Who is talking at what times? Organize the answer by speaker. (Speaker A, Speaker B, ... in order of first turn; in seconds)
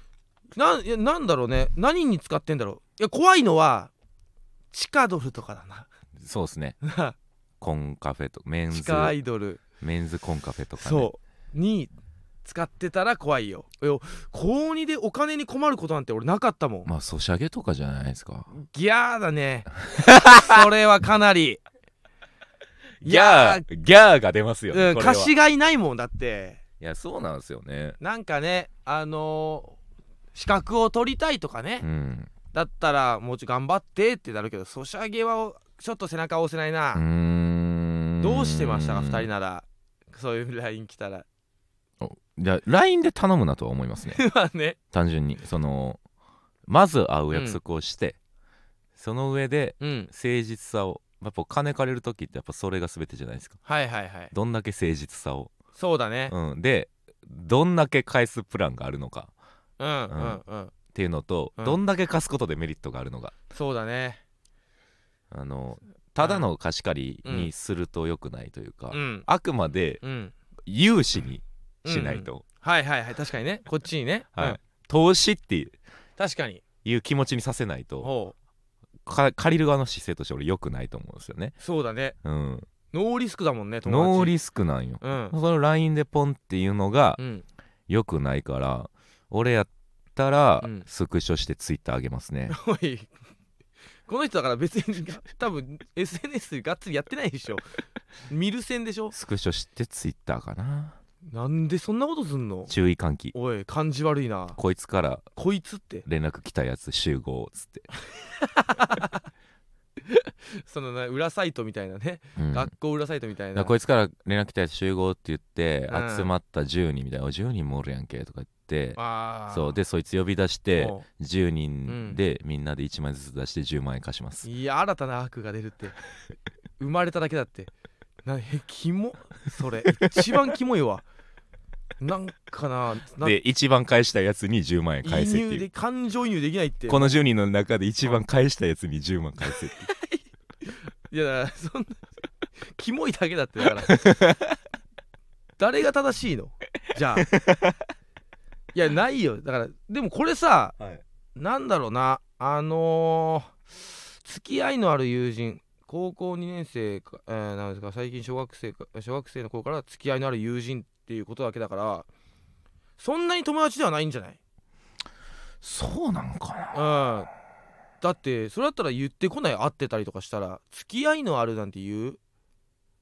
Speaker A: 0.5-3.9, 4.7-5.9, 6.8-7.2, 8.7-9.6, 10.8-11.9, 12.4-16.9, 18.5-21.6, 23.0-23.6, 24.7-26.6, 28.0-29.8, 30.3-31.9, 32.5-37.0, 38.2-41.2, 44.1-44.8, 47.3-47.6, 49.8-50.1, 53.6-54.3, 55.8-56.3, 59.8-60.7, 63.5-64.2, 67.2-67.5, 68.9-69.2, 70.0-70.3, 71.8-74.6, 76.2-76.6, 78.0-78.3, 81.6-82.2, 82.9-84.3, 85.0-85.3, 87.2-87.4, 90.6-90.8, 92.5-93.1, 94.1-97.6, 98.3-99.1, 101.3-102.7, 103.3-104.6, 105.3-106.0, 108.4-109.2, 110.0-113.7, 115.9-116.3, 119.0-119.8, 120.8-121.0, 121.9-122.2, 124.4-126.0, 126.8-127.7, 128.2-131.0, 132.0-133.3, 135.0-137.2, 139.5-142.0, 142.6-144.0, 145.6-147.3, 148.7-150.8, 151.3-153.6, 154.2-162.1, 163.0-164.4, 166.7-167.3, 168.0-172.2
Speaker B: 6.2-6.8, 7.6-9.1, 9.8-11.1, 16.9-18.5, 19.9-20.6, 23.0-25.3, 26.8-28.0, 31.8-32.3, 36.9-39.3, 42.0-44.2, 44.9-46.0, 46.7-48.2, 49.0-53.6, 54.3-55.5, 56.3-59.3, 60.1-60.4, 60.9-63.4, 65.3-70.0, 70.7-72.4, 74.3-75.8, 76.8-78.1, 79.0-81.5, 82.2-82.7, 83.8-87.2, 87.9-92.5, 99.1-101.0, 102.7-103.3, 104.5-105.2, 106.0-107.9, 112.3-112.7, 113.5-124.5, 133.2-135.7, 136.9-139.9, 143.8-144.6, 147.2-147.8, 165.6-166.8